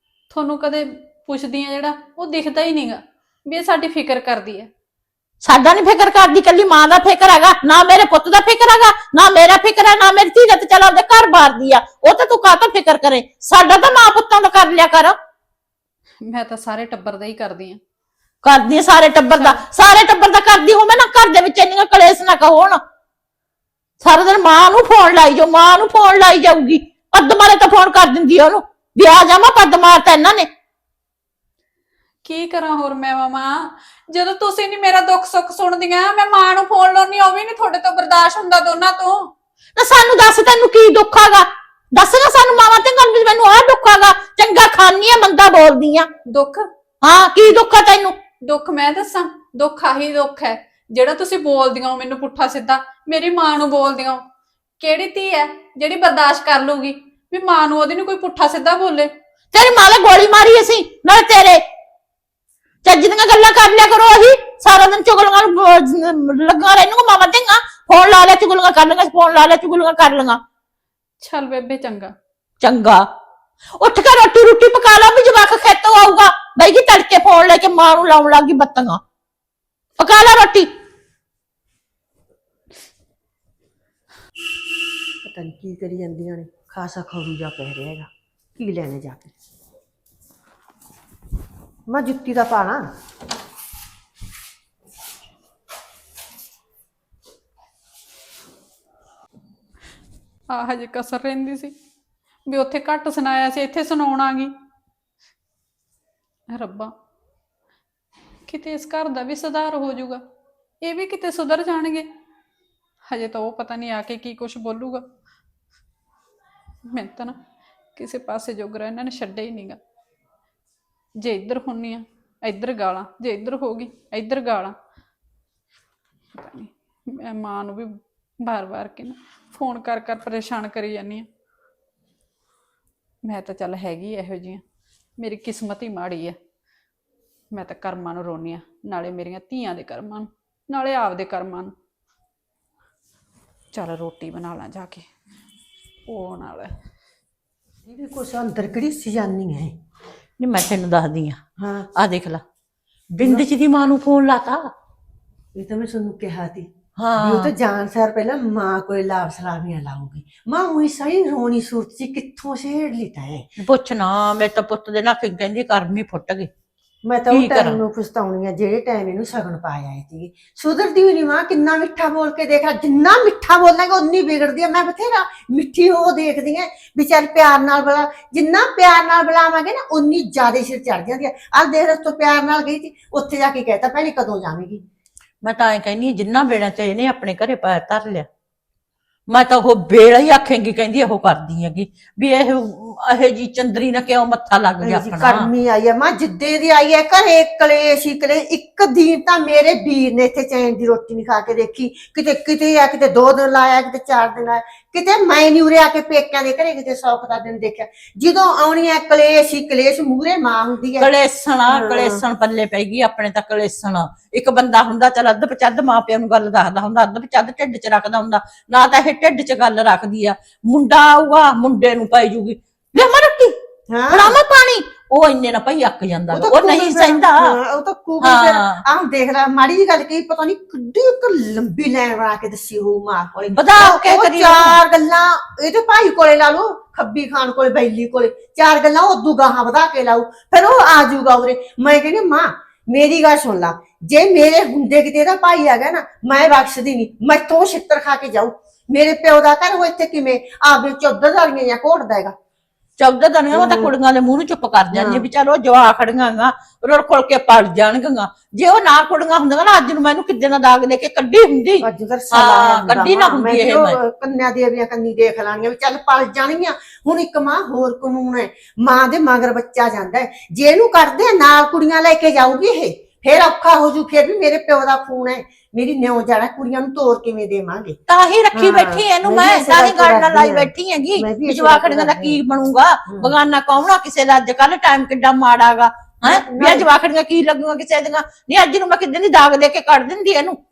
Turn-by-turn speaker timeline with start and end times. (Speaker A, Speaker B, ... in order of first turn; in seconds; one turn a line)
Speaker A: 0.3-4.7
Speaker B: 5.4-15.2
Speaker A: 16.2-17.8
Speaker B: 18.4-22.8
Speaker A: 19.3-19.6
Speaker B: 24.0-30.5
Speaker A: 32.2-39.3
Speaker B: 39.8-46.1
Speaker A: 46.3-46.7
Speaker B: 47.0-48.1
Speaker A: 48.4-54.2
Speaker A: 54.8-59.1
Speaker B: 59.5-61.6
Speaker B: 62.8-70.4
Speaker A: 71.2-72.1
Speaker B: 72.6-73.0
Speaker B: 73.8-79.0
Speaker B: 80.0-80.7
Speaker C: 85.2-89.3
Speaker C: 91.9-92.9
Speaker A: 100.5-101.7
Speaker A: 102.5-104.5
Speaker A: 106.5-106.9
Speaker A: 108.5-110.2
Speaker A: 110.8-112.1
Speaker A: 113.1-115.0
Speaker A: 116.9-117.4
Speaker A: 117.9-119.8
Speaker A: 121.2-124.7
Speaker A: 126.3-131.3
Speaker A: 133.2-134.6
Speaker A: 135.2-136.4
Speaker A: 137.5-141.7
Speaker A: 143.7-145.1
Speaker A: 146.1-146.7
Speaker C: 147.9-149.7
Speaker B: 150.4-151.4
Speaker C: 151.6-151.9
Speaker B: 151.9-152.4
Speaker B: 153.1-154.7
Speaker C: 153.2-153.4
Speaker C: 155.5-156.7
Speaker B: 157.0-157.5
Speaker C: 157.2-163.4
Speaker B: 163.6-166.5
Speaker C: 167.0-184.8
Speaker B: 167.3-167.8
Speaker B: 185.4-188.3
Speaker B: 189.3-195.5
Speaker C: 194.8-211.1
Speaker B: 211.0-223.5
Speaker C: 211.7-212.2
Speaker C: 223.9-224.4
Speaker B: 224.1-227.5
Speaker C: 226.3-252.3
Speaker B: 228.2-228.8
Speaker B: 233.5-234.8
Speaker B: 253.0-264.0
Speaker C: 253.5-253.9
Speaker C: 254.9-255.2
Speaker C: 261.8-278.0
Speaker B: 278.1-290.6
Speaker C: 278.5-282.4
Speaker C: 283.1-283.3
Speaker C: 286.2-286.9